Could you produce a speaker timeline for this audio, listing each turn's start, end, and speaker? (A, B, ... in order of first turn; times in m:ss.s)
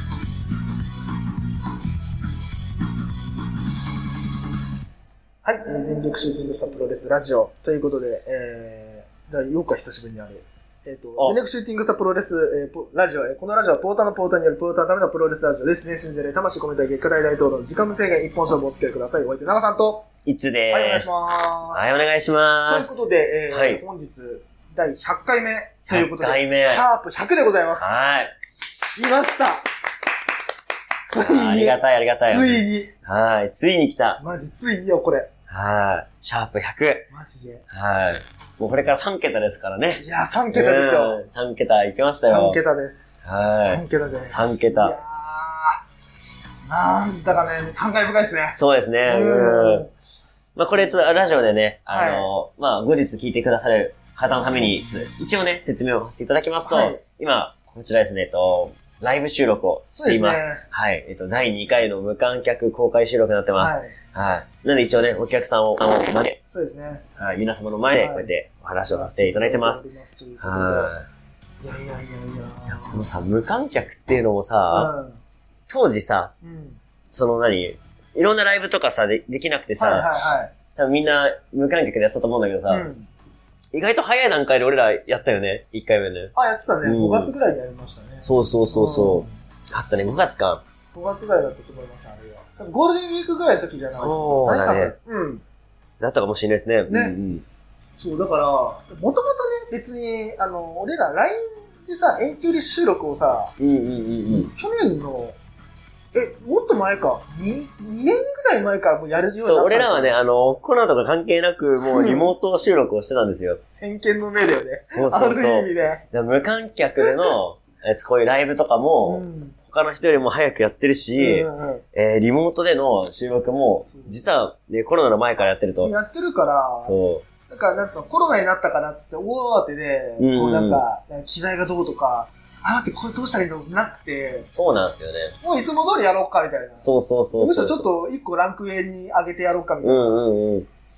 0:05.4-0:20.1 A
0:20.2-0:21.1 B
0:20.7-0:21.9 A
0:21.7-0:23.0 B
0:22.6-0:27.9 A
0:23.5-0:23.8 B
0:25.9-0:26.8 B
0:27.8-0:28.3 B
0:29.0-0:29.6 A
0:31.0-0:32.9 A
0:31.1-0:34.2 B
0:34.2-0:35.3 A
0:35.5-0:37.1 B
0:37.1-0:37.6 A
0:37.7-0:42.6 B
0:40.0-0:41.2 A
0:42.2-0:45.8 A
0:43.2-0:45.0 B
0:46.6-0:49.9 A
0:48.5-0:49.9 B
0:50.6-1:06.4 B
0:50.7-0:51.1 A
0:51.9-0:52.3 A
0:56.6-0:57.0 A
0:59.9-1:00.6 A
1:03.6-1:04.0 A
1:06.5-1:07.0 A
1:07.2-1:09.8 B
1:07.9-1:08.3 A
1:08.9-1:10.9 A
1:10.4-1:11.1 B
1:11.6-1:13.0 A
1:12.7-1:14.9 B
1:14.7-1:15.2 A
1:15.7-1:16.3 B
1:16.4-1:16.8 A
1:17.1-1:20.1 B
1:19.8-1:20.5 A
1:20.7-1:22.9 B
1:22.7-1:23.1 A
1:23.7-1:27.3 B
1:26.3-1:29.4 A
1:28.2-1:30.6 B
1:30.9-1:35.4 A
1:33.9-1:34.9 B
1:36.0-1:37.4 B
1:36.9-1:37.2 A
1:38.0-1:43.6 A
1:43.6-1:44.5 B
1:44.3-1:45.4 A
1:46.1-1:50.2 A
1:49.4-1:53.6 B
1:51.9-1:52.3 A
1:53.7-1:56.0 A
1:54.9-2:05.9 B
1:57.0-1:57.3 A
1:59.0-1:59.6 A
2:01.2-2:01.8 A
2:03.8-2:04.2 A
2:05.8-2:06.9 A
2:06.8-2:07.2 B
2:07.5-2:14.5 A
2:10.2-2:10.8 B
2:14.5-2:15.4 B
2:15.4-2:20.2 A
2:16.8-2:17.9 B
2:19.8-2:20.7 B